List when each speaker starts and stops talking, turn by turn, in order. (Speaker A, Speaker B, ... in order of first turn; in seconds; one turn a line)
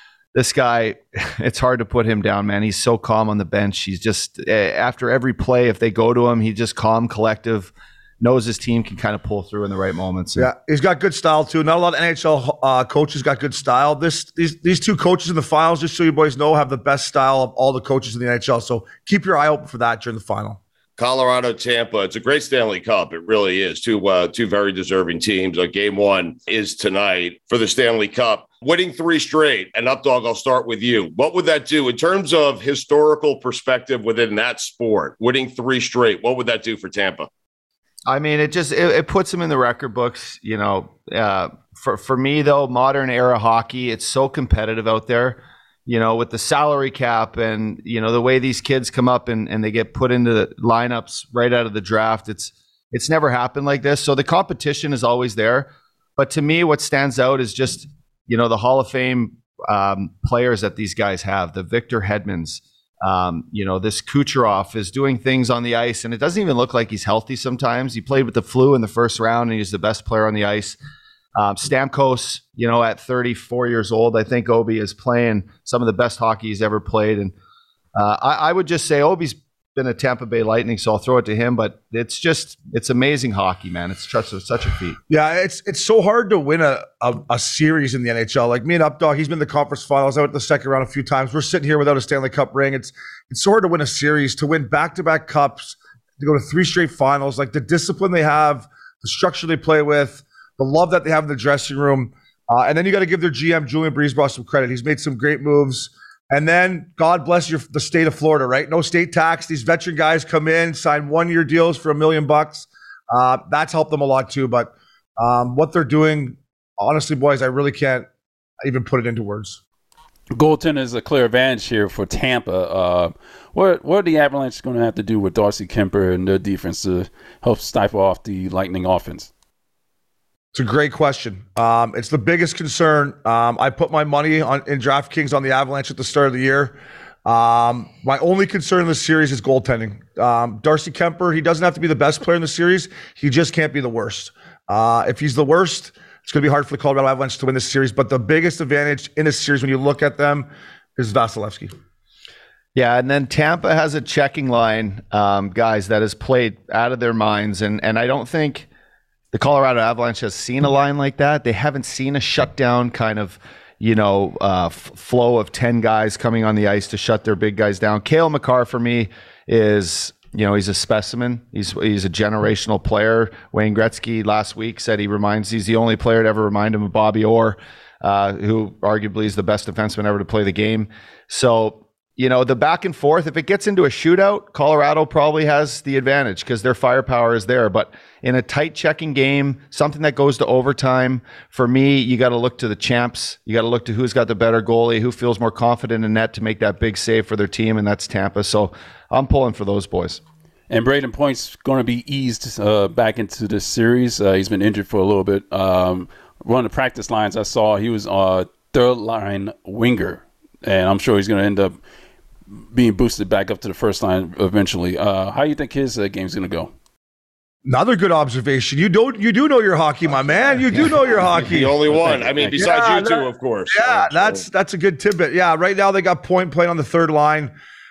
Speaker A: 0.3-10.5
Speaker B: 10.4-20.6
Speaker C: 21.0-37.3
Speaker A: 38.1-70.8
Speaker A: 71.4-77.3
Speaker A: 78.0-85.0
Speaker B: 85.1-118.1
Speaker B: 118.6-119.6
Speaker D: 120.3-129.3
Speaker B: 130.5-151.7
Speaker A: 152.8-158.7
Speaker A: 159.3-200.2
Speaker D: 200.7-211.8
Speaker D: 212.6-216.7
Speaker B: 217.7-221.8
Speaker C: 221.4-224.4
Speaker B: 222.5-227.5